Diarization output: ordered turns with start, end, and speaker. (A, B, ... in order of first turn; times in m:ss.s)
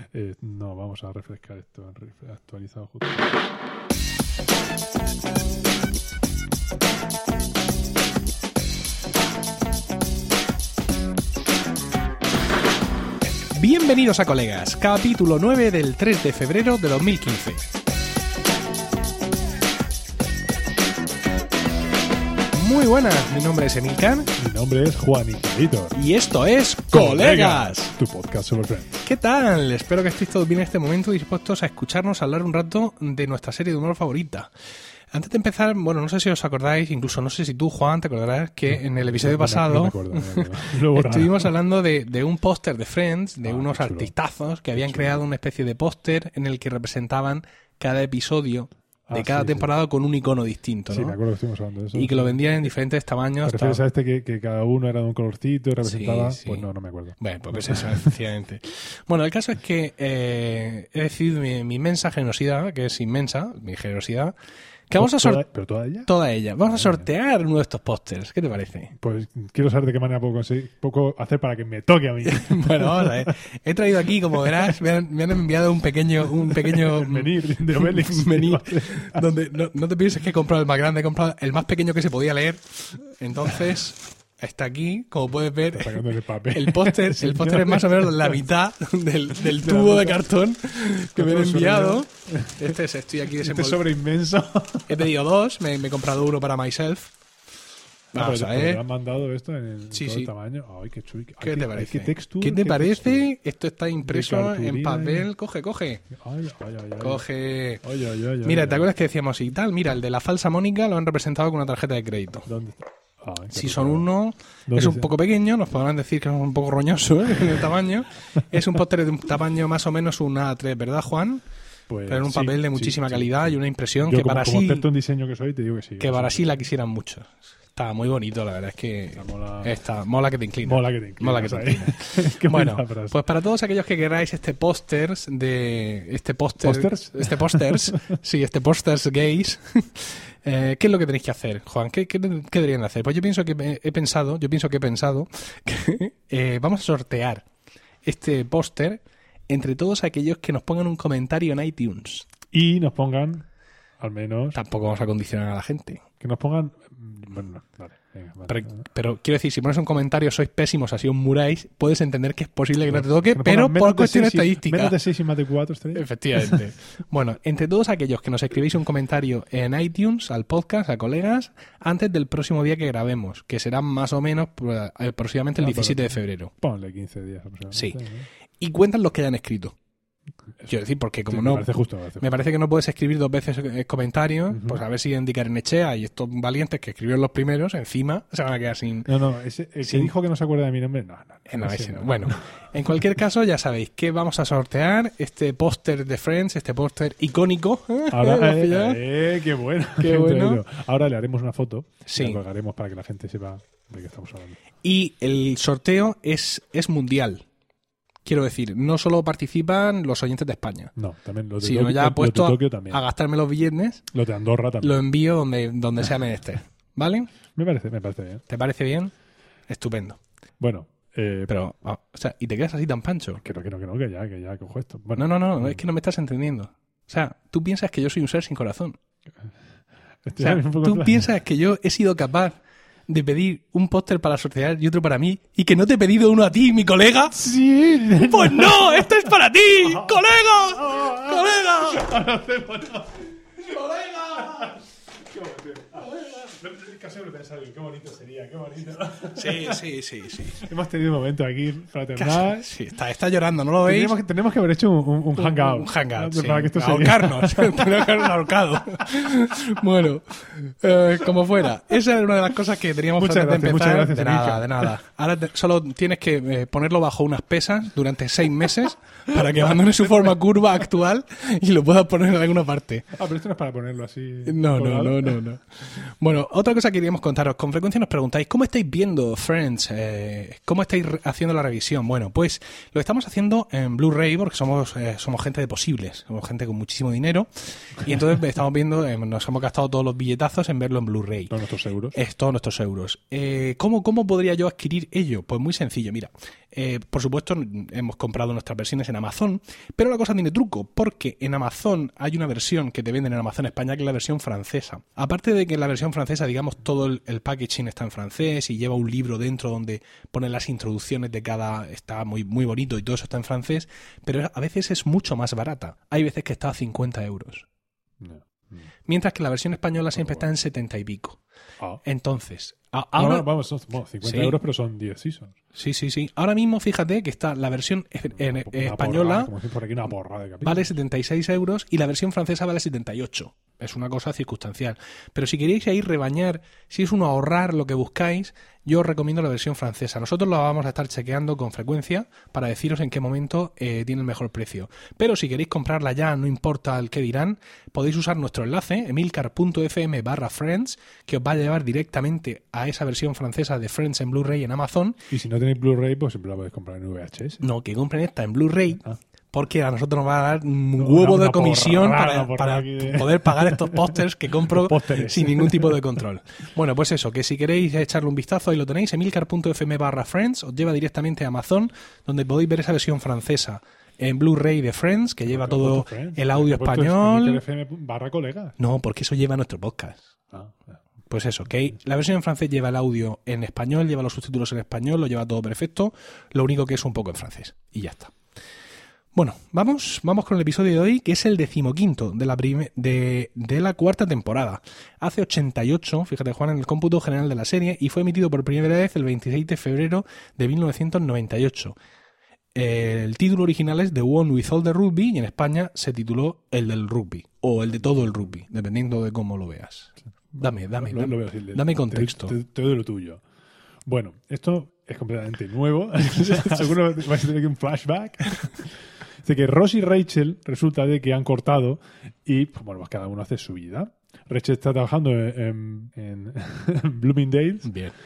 0:00.1-0:03.4 A
0:13.5-0:17.6 B
0:22.5-0:24.3 B
0:24.4-0:26.0 A
0:26.0-0:27.9 B
0:26.9-0:29.0 A
0:29.0-0:34.5 B
0:35.1-0:51.2 B
0:38.7-0:41.5 A
0:43.4-0:44.1 A
0:44.7-0:45.3 A
0:49.1-0:49.7 A
0:50.9-0:52.4 A
0:51.9-0:53.8 B
0:53.4-0:58.2 A
0:55.8-0:56.7 B
0:57.2-1:04.3 B
1:04.9-1:05.4 B
1:05.0-1:06.1 A
1:06.1-1:08.9 B
1:06.7-1:07.0 A
1:09.0-1:13.4 A
1:12.2-1:33.8 B
1:14.0-1:14.8 A
1:16.4-1:19.3 A
1:25.7-1:28.4 A
1:29.4-1:30.2 A
1:31.2-1:32.8 A
1:33.3-1:35.1 A
1:34.9-1:37.1 B
1:38.1-1:38.8 B
1:38.1-1:43.3 A
1:39.9-1:40.3 B
1:41.4-1:46.1 B
1:44.0-1:45.3 A
1:46.1-1:47.2 A
1:47.0-1:47.8 B
1:47.8-1:48.9 A
1:48.4-1:52.5 B
1:52.5-1:54.1 A
1:53.5-2:01.4 B
1:54.7-1:55.1 A
2:01.9-2:06.6 A
2:02.1-2:04.9 B
2:06.0-2:27.4 B
2:09.2-2:09.7 A
2:10.6-2:13.2 A
2:16.6-2:18.1 A
2:28.0-2:32.3 B
2:32.5-2:33.5 A
2:34.0-2:34.6 A
2:34.5-2:36.0 B
2:36.2-2:38.8 A
2:38.5-2:45.0 B
2:42.9-2:46.6 A
2:45.9-2:56.5 B
2:55.6-2:58.3 A
2:57.7-2:58.0 B
2:58.6-2:59.8 B
3:00.7-3:01.7 B
3:01.3-3:02.3 A
3:02.2-3:09.1 B
3:04.5-3:04.8 A
3:09.1-3:12.4 A
3:09.8-3:10.1 B
3:11.5-3:19.0 B
3:18.1-3:24.6 A
3:20.0-3:20.6 B
3:22.1-3:22.4 B
3:24.8-3:27.4 B
3:28.2-3:30.9 B
3:31.0-3:33.0 A
3:31.6-3:34.1 B
3:34.1-3:35.0 A
3:34.8-3:37.3 B
3:37.6-3:38.4 A
3:38.5-3:39.1 B
3:39.7-3:40.2 B
3:40.6-3:41.5 A
3:41.5-3:43.4 B
3:43.4-3:45.8 A
3:45.2-3:49.0 B
3:50.2-3:51.3 A
3:50.4-3:57.4 B
3:57.3-3:59.1 A
3:58.2-4:02.1 B
3:59.8-4:09.8 A
4:03.8-4:04.5 B
4:09.3-4:10.6 B
4:10.6-4:12.7 A
4:12.2-4:14.2 B
4:13.9-4:18.4 A
4:15.4-4:33.1 B
4:23.2-4:24.9 A
4:29.3-4:29.8 A
4:33.1-4:35.4 A
4:34.5-4:51.6 B
4:51.5-4:52.2 A
4:52.1-5:17.7 B
5:18.2-5:18.9 A
5:19.1-5:21.4 B
5:20.2-5:20.5 A
5:22.0-5:23.5 B
5:23.2-5:25.6 A
5:24.2-5:24.6 B
5:25.8-5:29.5 B
5:28.4-5:30.9 A
5:30.6-5:55.2 B
5:55.3-5:57.6 A
5:57.6-6:17.6 B
6:01.0-6:06.2 A
6:15.5-6:18.8 A
6:18.8-6:20.4 B
6:20.5-6:21.0 A
6:21.3-6:28.3 B
6:29.3-6:42.0 B
6:42.8-6:52.6 B
6:47.9-6:48.5 A
6:50.6-6:53.4 A
6:54.0-7:07.9 A
6:56.2-6:57.0 B
7:07.8-7:08.1 B